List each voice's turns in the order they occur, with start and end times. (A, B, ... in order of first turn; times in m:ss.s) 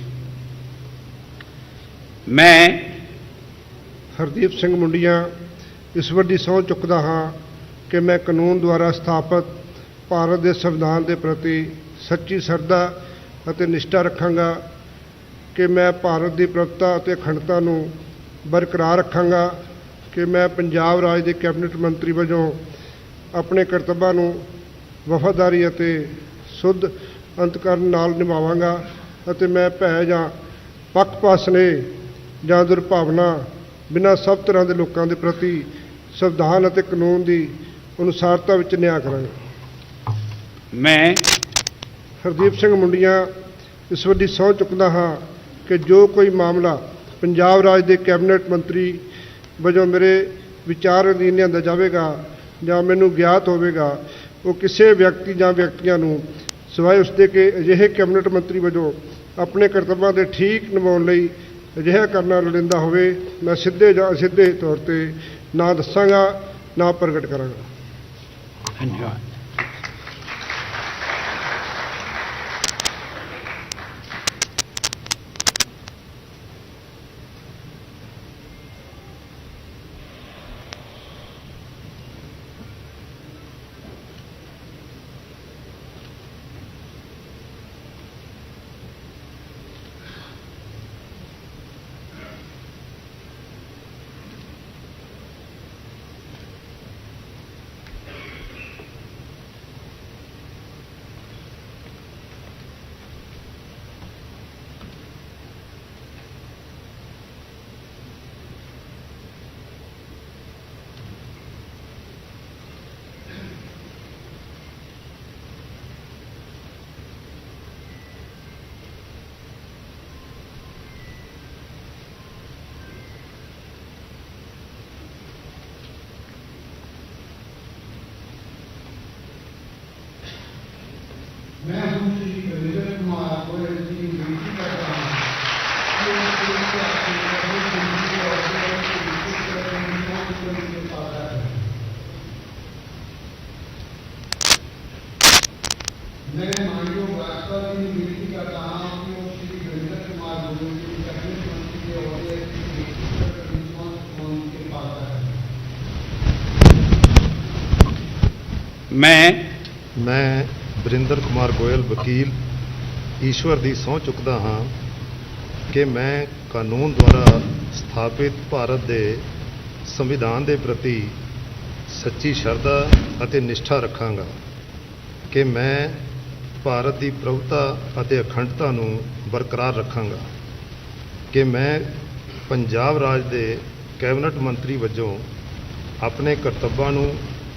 0:02.3-0:03.0 A
0:04.2-0:05.3 B
0:05.9-0:07.4 B
0:07.9-0:09.5 B
0:10.1-0:12.9 B
0:13.5-0:14.6 B
0:15.6-0:17.9 B
0:18.5-0:19.6 B
0:20.1-0:22.6 B
0:23.4-0:24.5 B
0:25.0-0:30.3 B
0:30.9-0:31.9 B
0:32.4-0:39.3 B
0:40.7-0:41.3 A
0:42.2-0:43.3 B
0:43.9-0:49.0 B
0:49.6-1:07.6 B
1:08.8-1:09.2 A
2:11.6-2:15.2 C
2:15.9-2:21.6 C
2:26.2-2:35.4 C
2:38.9-2:39.5 A
2:40.0-2:42.4 D
2:43.2-2:44.7 D
2:45.7-2:49.3 D
2:49.8-2:51.2 D
2:51.9-2:54.4 D
2:55.3-2:56.0 D
2:56.6-3:00.3 D
3:01.3-3:05.3 D
3:06.0-3:07.2 D